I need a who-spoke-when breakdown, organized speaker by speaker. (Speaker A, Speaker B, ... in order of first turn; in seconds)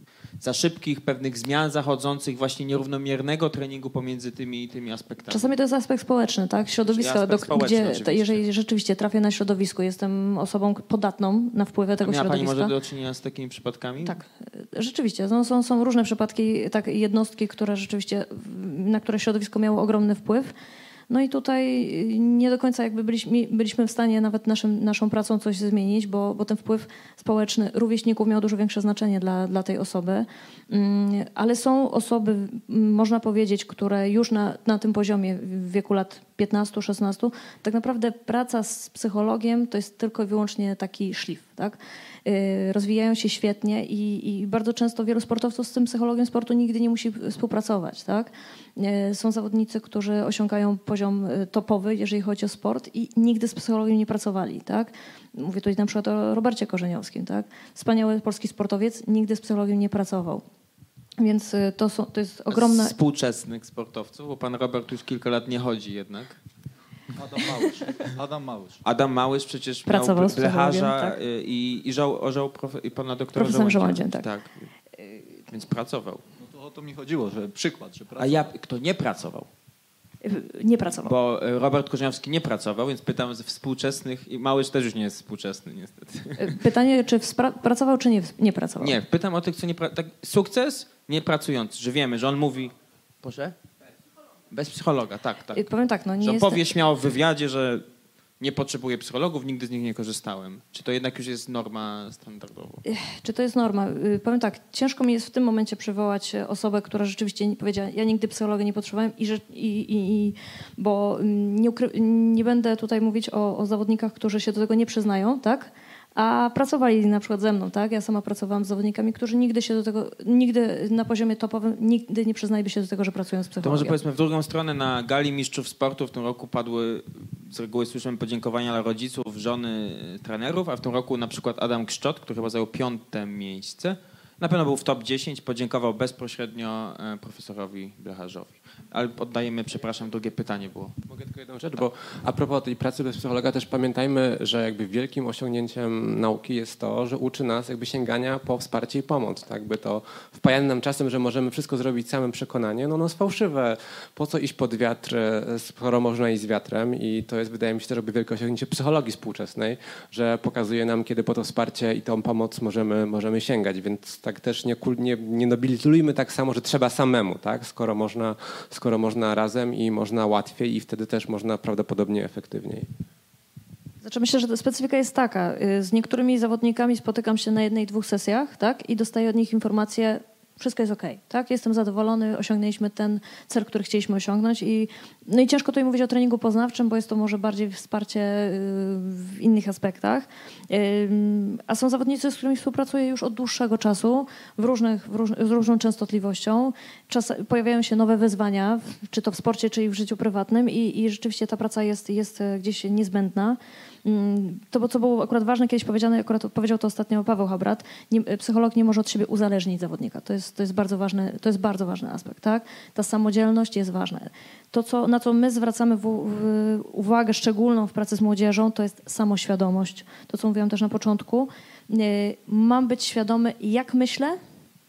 Speaker A: 0.4-5.5, 6.9-8.4, 12.0-14.2, 62.5-66.4, 68.8-74.7, 75.5-76.2, 78.2-79.5, 81.0-86.6, 88.8-93.5, 94.5-97.8, 98.4-102.8, 123.6-140.9
Speaker B: 5.3-12.7, 14.0-20.5, 21.1-60.4, 61.2-62.9, 69.9-71.2, 73.3-74.3, 80.2-81.1, 86.4-89.0, 95.5-96.7, 102.8-124.0, 174.0-224.4
Speaker C: 67.1-68.8, 76.4-78.5
Speaker D: 141.1-172.9